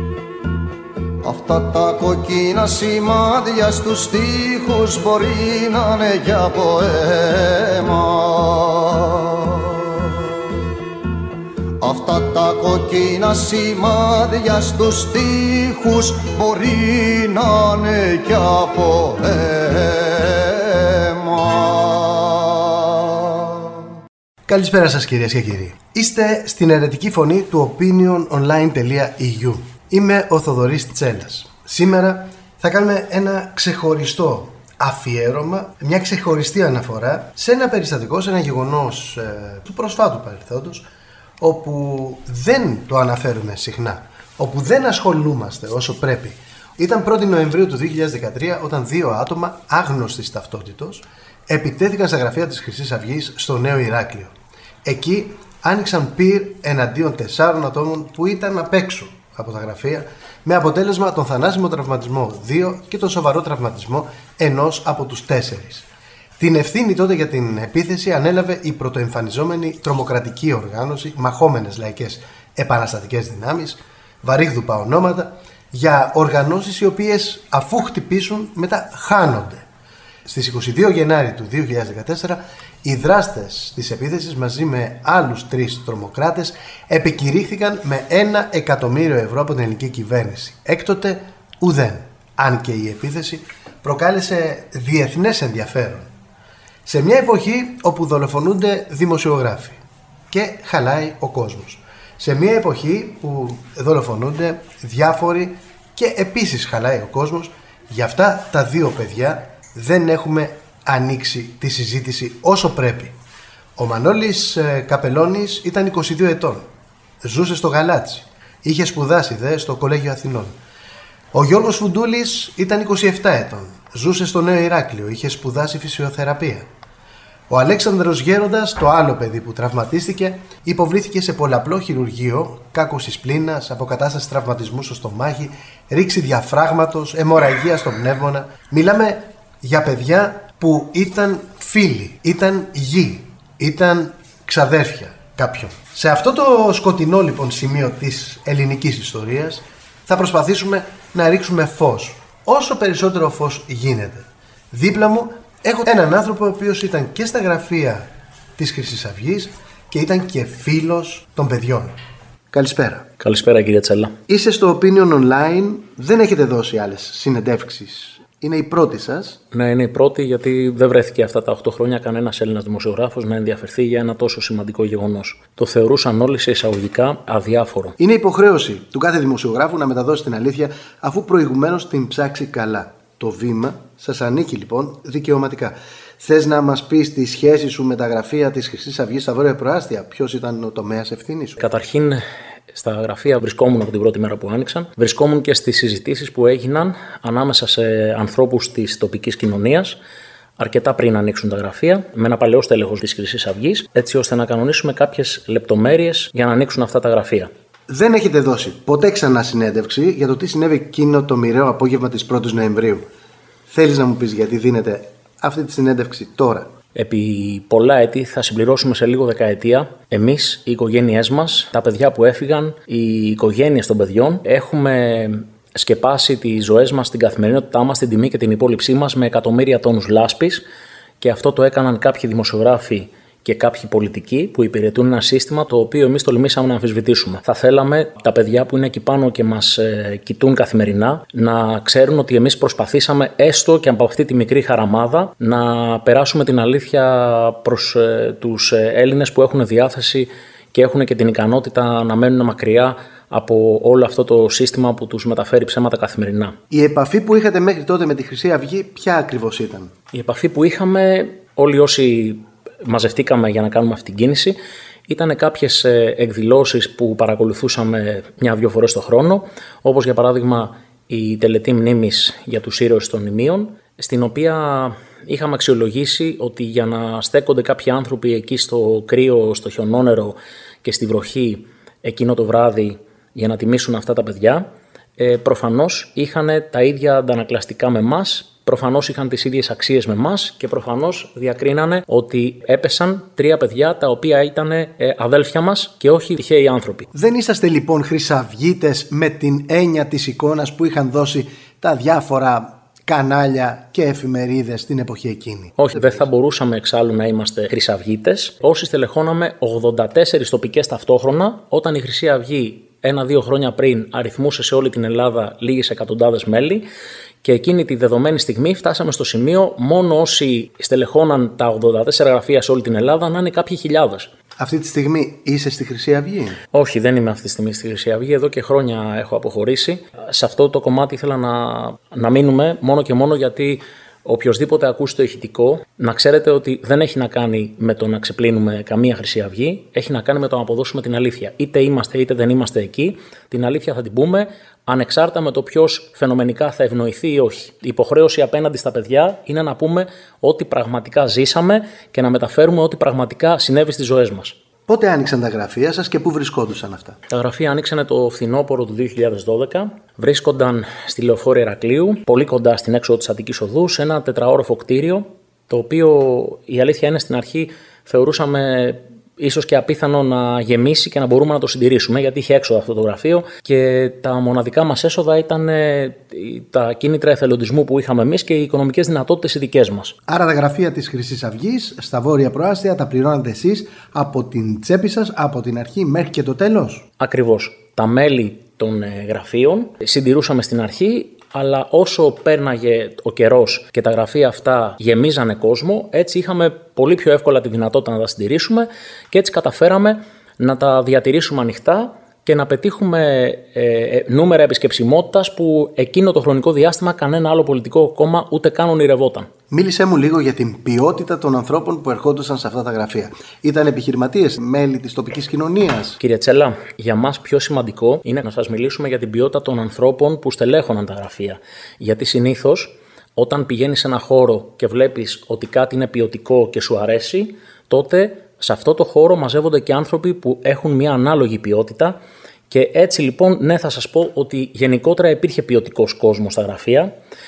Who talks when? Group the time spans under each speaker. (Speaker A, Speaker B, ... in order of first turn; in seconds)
Speaker A: 1.2-10.3, 11.8-23.8
Speaker B: 24.5-40.9, 41.4-54.3, 54.8-65.8, 66.4-79.6, 80.2-96.1, 96.8-99.8, 100.3-113.1, 113.8-116.7, 117.2-120.5, 121.3-126.7, 127.5-158.1, 158.6-161.9, 162.5-163.1, 164.3-169.4, 178.0-191.6, 207.9-213.1, 213.7-216.7, 256.7-259.9, 297.1-306.3, 324.6-326.6, 354.9-357.2, 380.3-387.1, 409.7-416.2
Speaker C: 163.2-164.2, 169.5-177.9, 191.6-200.0, 200.6-207.5, 216.9-230.6, 231.2-256.6, 260.1-264.6, 265.1-284.6, 285.2-297.1, 305.8-316.8, 317.4-324.3, 326.7-354.6, 357.3-380.1, 387.2-409.5, 416.2-432.2, 432.7-437.1